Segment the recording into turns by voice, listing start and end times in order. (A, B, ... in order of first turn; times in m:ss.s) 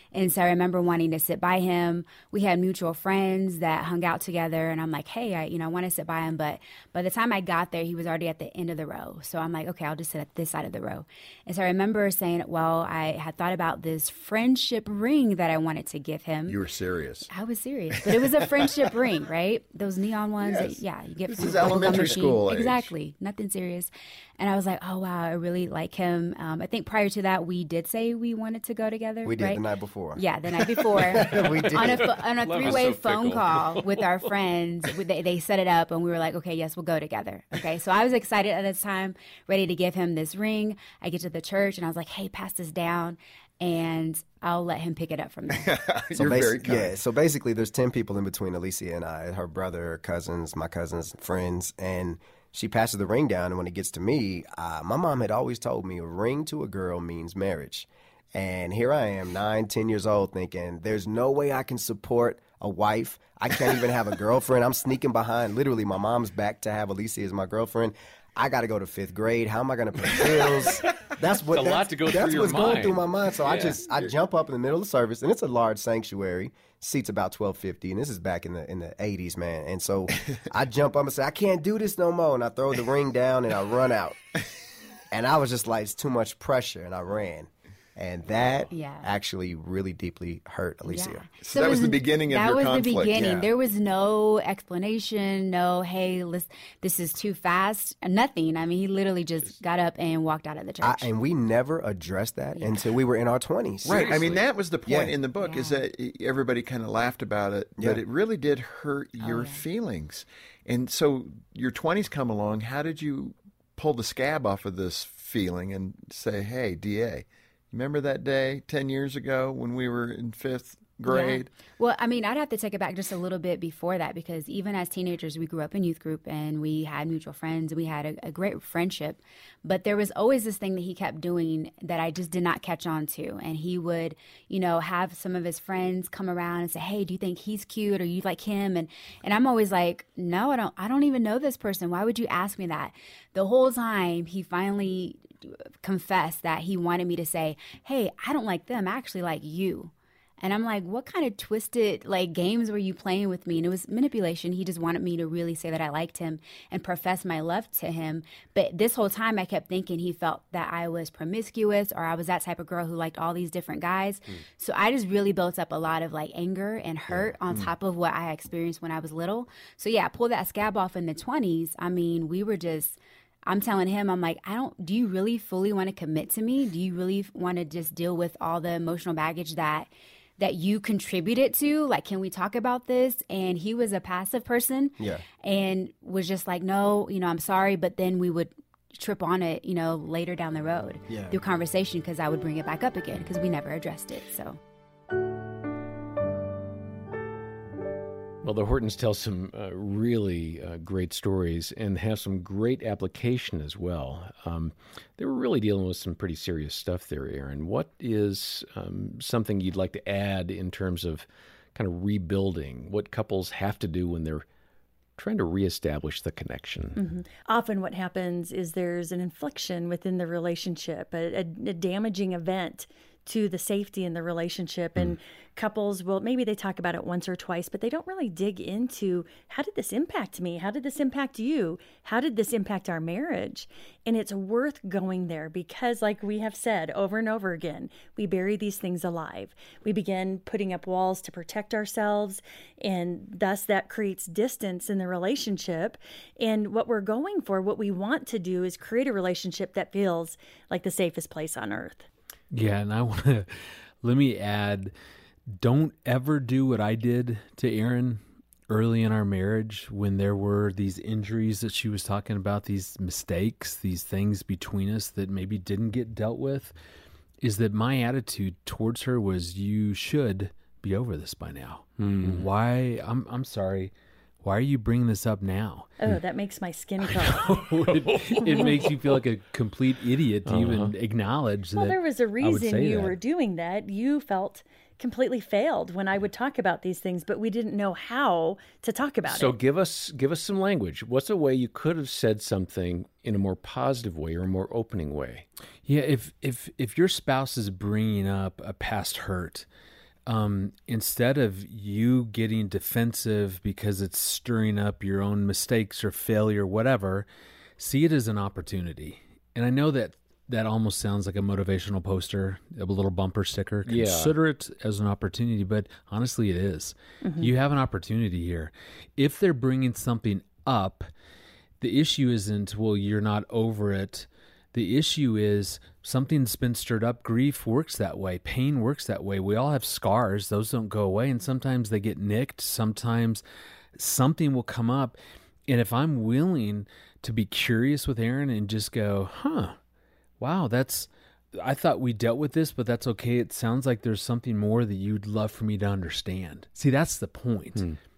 0:00.1-0:16.6 A
0:16.5-0:17.3 B
0:17.3-0:45.7 A
0:17.9-0:18.7 B
0:20.4-0:22.9 B
0:29.2-0:30.2 C
0:30.9-0:32.2 C
0:31.5-0:34.3 D
0:45.6-0:47.0 B
0:46.2-1:24.2 C
1:11.5-1:13.8 D
1:25.1-1:31.3 C
1:28.7-1:29.1 A
1:30.9-1:41.1 A
1:31.4-1:33.2 B
1:33.1-1:33.5 C
1:40.8-1:44.2 C
1:42.6-1:42.9 A
1:43.8-1:44.4 D
1:43.9-2:01.5 B
1:44.8-1:45.1 C
1:45.4-1:45.8 A
1:49.2-1:49.6 A
2:01.1-3:14.6 A
3:05.0-3:05.2 C
3:11.1-3:11.4 C
3:18.4-3:34.4 D
3:35.2-3:37.0 D
3:37.0-4:12.1 E
4:12.5-4:13.5 F
4:14.0-4:14.9 F
4:15.6-4:26.7 F
4:27.4-4:33.9 F
4:32.0-4:32.5 D
4:34.4-4:36.0 F
4:36.0-4:37.5 E
4:37.1-4:43.2 F
4:37.9-4:39.2 D
4:40.5-4:40.9 D
4:41.8-4:49.6 E
4:49.2-4:55.4 D
4:55.9-4:59.7 F
5:00.3-5:07.3 F
5:07.8-5:21.1 F
5:13.8-5:14.4 D
5:21.8-5:33.4 F
5:34.0-5:35.2 F
5:35.7-5:39.8 F
5:40.4-5:47.9 F